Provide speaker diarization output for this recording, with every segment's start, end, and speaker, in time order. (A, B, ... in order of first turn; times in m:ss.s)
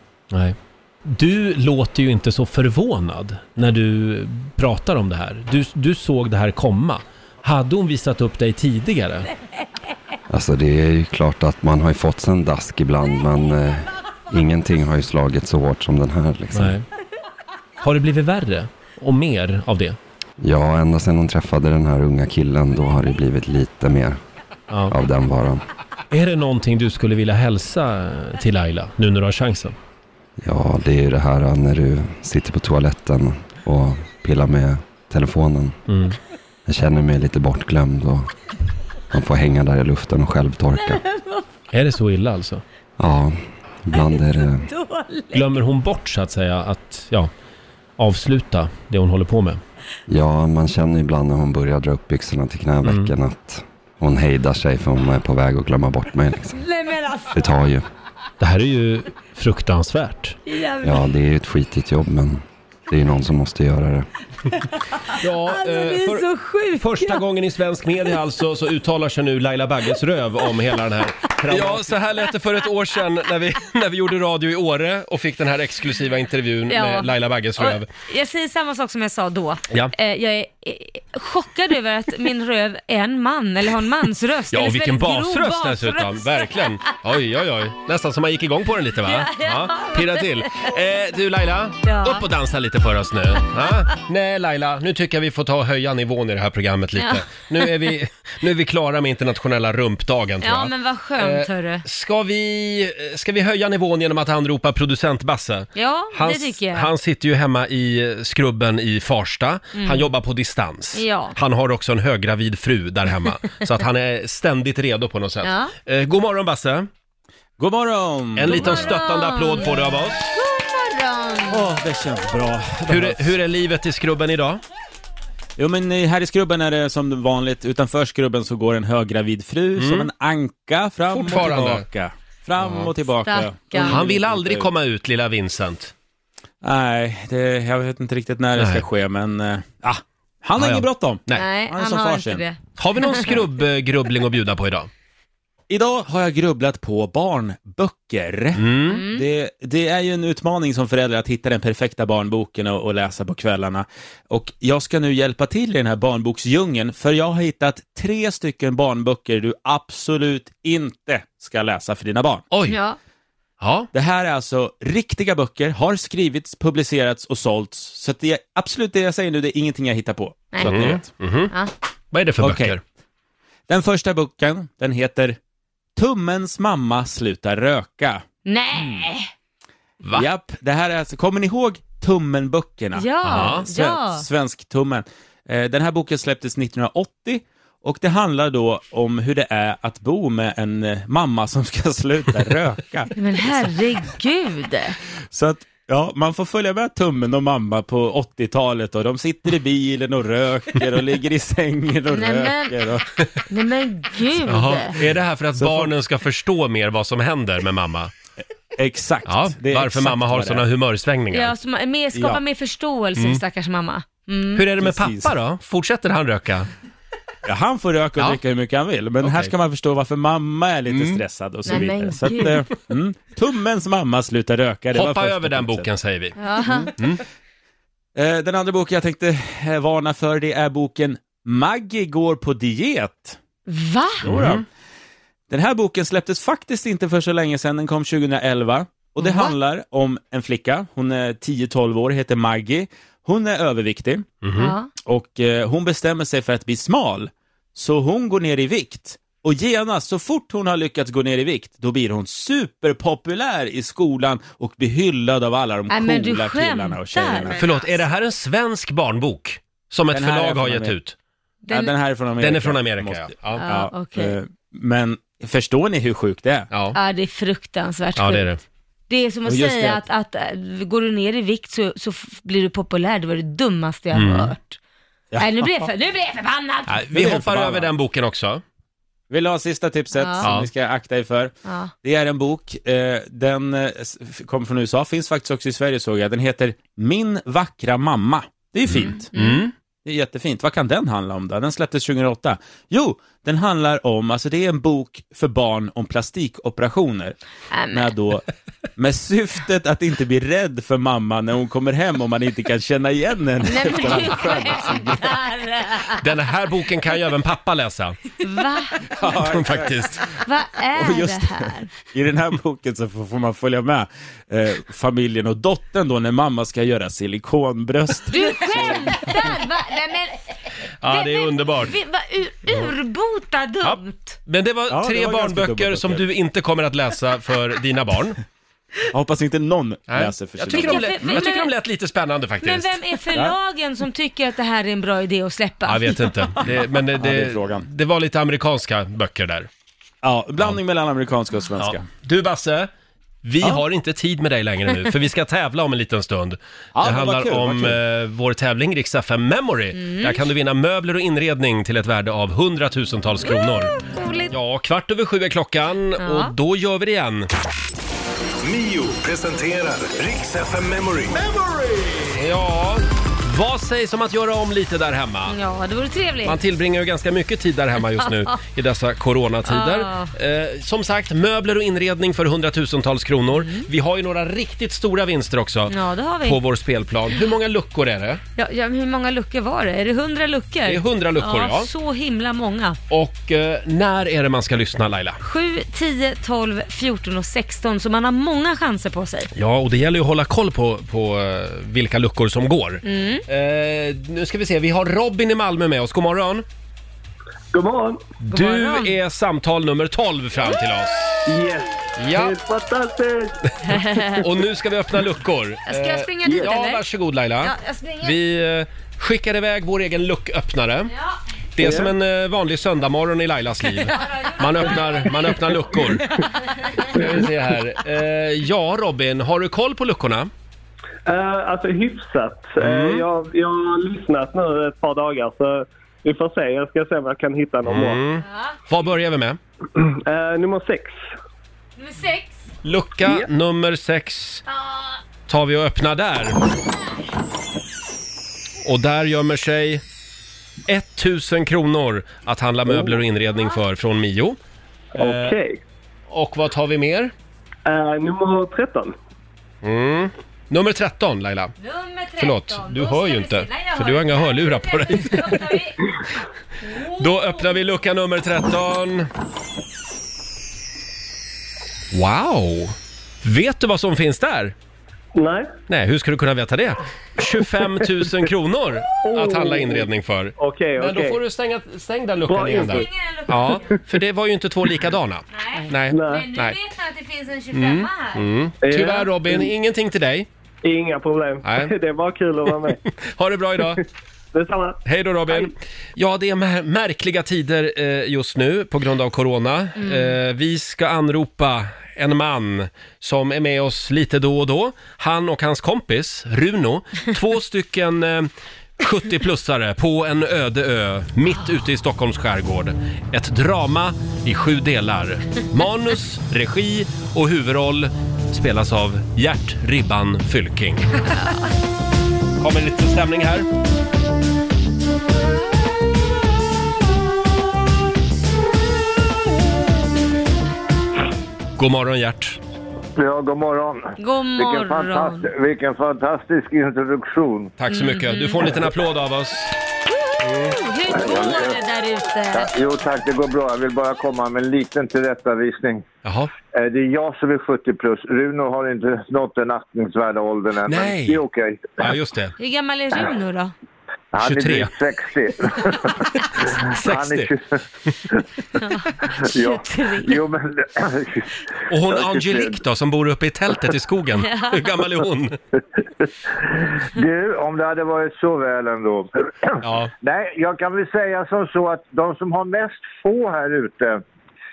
0:00.3-0:09.3 A
0:10.3-0:16.8 B
0:16.5-0:16.8 A
0:17.8-0:20.0 A
0:20.4-0:24.2 B
0:24.9-0:25.6 B
0:26.1-0:29.8 A
0:30.4-0:35.8 B
0:35.9-0:36.2 A
0:36.7-0:38.3 B
0:39.1-0:41.0 B
0:40.9-0:41.4 C
0:41.7-0:42.6 A
0:43.0-0:44.7 B
0:43.9-0:45.5 C
0:45.3-0:47.3 A
0:48.0-0:49.6 A
0:50.1-0:56.6 B
0:52.8-0:53.1 A
0:56.6-0:57.4 C
0:57.3-0:57.8 B
0:58.4-1:00.4 A
1:00.5-1:01.0 C
1:00.8-1:04.1 B
1:05.1-1:17.9 A
1:05.4-1:07.2 C
1:11.5-1:11.8 C
1:16.7-1:26.9 C
1:24.5-1:56.9 A
1:29.0-1:30.7 C
1:31.8-1:32.2 C
1:40.4-1:41.8 C
1:45.7-1:46.9 C
1:49.8-1:50.1 C
1:50.9-1:51.4 C
1:55.4-1:55.7 C
1:57.6-1:59.0 D
1:58.4-2:00.4 A
1:58.5-2:01.6 C
2:01.5-2:03.3 D
2:02.9-2:04.6 A
2:05.6-2:14.7 D
2:09.8-2:10.1 A
2:11.1-2:11.9 A
2:12.6-2:12.9 A
2:13.2-2:14.0 C
2:13.8-2:15.9 A
2:16.6-2:22.4 D
2:18.6-2:18.9 A
2:20.6-2:21.4 A
2:21.4-2:23.2 C
2:22.8-2:24.9 A
2:25.7-2:42.4 D
2:28.6-2:29.0 A
2:28.9-2:29.2 C
2:42.5-2:42.8 A
2:42.7-2:43.0 C
2:43.6-2:43.9 A
2:43.9-2:51.1 D
2:50.6-2:51.5 A
2:52.1-2:52.8 A
2:52.4-2:52.8 D
2:53.7-2:55.4 D
2:56.0-2:58.2 D
2:58.4-2:59.3 C
3:00.1-3:13.1 D
3:03.0-3:04.2 C
3:03.2-3:03.7 A
3:13.2-3:15.0 C
3:15.3-3:23.1 D
3:22.1-3:22.8 C
3:23.5-3:25.0 C
3:24.5-3:28.1 A
3:25.6-3:25.9 D
3:28.8-3:30.6 D
3:29.2-3:31.5 A
3:31.3-3:34.6 C
3:32.1-3:32.4 D
3:34.5-3:36.7 A
3:34.8-3:35.3 D
3:37.4-3:45.9 D
3:39.2-3:39.5 A
3:40.9-3:41.2 A
3:41.6-3:42.6 C
3:44.9-3:46.4 A
3:46.4-3:46.9 C
3:46.6-3:46.9 D
3:48.1-3:53.4 D
3:53.7-3:54.2 C
3:54.2-3:54.6 D
3:54.2-3:54.6 A
3:55.5-4:04.3 D
3:59.2-3:59.5 C
4:04.4-4:04.7 A
4:04.6-4:04.9 C
4:05.0-4:17.7 D
4:15.9-4:17.6 C
4:17.6-4:21.1 A
4:20.1-4:21.0 D
4:21.6-4:21.9 C
4:21.7-4:26.7 D
4:22.4-4:23.6 A
4:23.6-4:24.4 C
4:26.7-4:27.0 A
4:26.9-4:28.5 C
4:28.2-4:28.6 A
4:29.1-4:34.8 C
4:29.4-4:30.0 D
4:34.1-4:34.5 A
4:35.3-4:35.9 D
4:35.4-4:37.0 C
4:36.9-4:38.6 A
4:37.1-4:37.9 D
4:39.3-4:41.5 D
4:40.1-4:40.5 C
4:40.4-4:40.7 A
4:41.6-4:41.9 C
4:42.0-4:49.3 D
4:48.9-4:49.7 A
4:49.3-4:49.6 C
4:50.0-4:57.4 D
4:57.7-4:58.1 C
4:57.9-4:58.4 D
4:59.0-5:05.4 D
5:03.6-5:06.2 C
5:06.2-5:08.2 A
5:08.4-5:09.1 C
5:09.0-5:10.3 D
5:09.2-5:10.2 A
5:10.4-5:11.9 C
5:11.0-5:19.5 D
5:18.3-5:20.5 C
5:21.0-5:21.9 A
5:21.0-5:24.4 C
5:23.8-5:28.4 A
5:24.9-5:26.2 D
5:29.1-5:31.4 D
5:30.1-5:32.9 A
5:30.7-5:31.7 C
5:32.6-5:36.2 C
5:35.9-5:39.7 A
5:36.6-5:37.9 D
5:40.2-5:42.0 D
5:41.8-5:42.9 A
5:43.4-5:53.9 A
5:47.0-5:48.0 D
5:50.0-5:50.4 C
5:53.4-5:54.5 C
5:54.5-5:57.5 A
5:56.2-5:56.5 C
5:58.6-6:02.1 E
6:02.4-6:05.5 A
6:05.5-6:06.6 C
6:06.4-6:18.4 A
6:08.2-6:08.5 C
6:09.6-6:10.3 C
6:13.5-6:13.9 C
6:15.9-6:16.6 C
6:18.6-6:23.0 C
6:20.9-6:21.9 A
6:23.1-6:25.4 A
6:25.4-6:29.5 C
6:29.5-6:36.6 A
6:33.0-6:33.4 C
6:37.7-6:38.2 F
6:38.4-6:41.5 A
6:38.5-6:39.1 C
6:41.4-6:43.5 F
6:42.2-6:42.6 A
6:43.9-6:44.4 C
6:44.4-6:51.1 A
6:45.9-6:47.0 C
6:47.6-6:48.4 C
6:51.8-6:56.3 A
6:51.8-6:52.1 F
6:54.0-6:55.6 C
6:57.1-7:00.5 A
7:01.2-7:08.2 F
7:02.8-7:03.2 A
7:07.8-7:09.6 A
7:10.0-7:11.3 F
7:12.0-7:12.6 C
7:12.8-7:14.6 A
7:14.8-7:15.1 C
7:15.5-7:16.6 A
7:18.8-7:20.0 A
7:20.9-7:24.6 A
7:22.9-7:23.2 F
7:25.2-7:25.8 F
7:25.2-7:25.6 A
7:26.3-7:27.3 A
7:27.9-7:29.1 F
7:29.8-7:31.7 A
7:31.8-7:36.1 C
7:32.4-7:35.6 A
7:36.8-7:37.8 C
7:37.2-7:39.3 A
7:42.1-7:44.7 A
7:45.4-7:45.7 F
7:45.9-7:56.8 A
7:49.2-7:51.4 F
7:52.5-7:53.1 F
7:52.7-7:53.9 C
7:55.5-7:58.4 C
7:56.1-7:56.5 F
7:57.7-8:00.5 A
7:58.8-7:59.7 F
8:00.8-8:03.0 F
8:01.6-8:01.9 A
8:03.0-8:04.0 A
8:04.5-8:05.7 F
8:05.0-8:31.3 A
8:10.0-8:10.3 C
8:32.6-8:33.7 A
8:41.8-8:42.6 A
8:43.2-8:47.7 G
8:44.2-8:45.5 C
8:47.8-8:49.7 A
8:47.9-8:48.8 C
8:50.4-8:50.8 A
8:50.6-8:52.7 C
8:51.1-8:51.8 G
8:52.5-8:56.0 G
8:56.2-8:56.5 A
8:56.7-9:02.1 G
9:00.9-9:01.4 A
9:02.0-9:02.5 A
9:02.6-9:03.7 C
9:04.3-9:08.4 G
9:04.4-9:04.9 A
9:06.4-9:07.5 A
9:08.8-9:10.4 C
9:09.3-9:11.5 G
9:11.9-9:15.6 A
9:12.1-9:12.8 G
9:14.4-9:14.8 C
9:16.2-9:24.2 G
9:19.8-9:20.1 A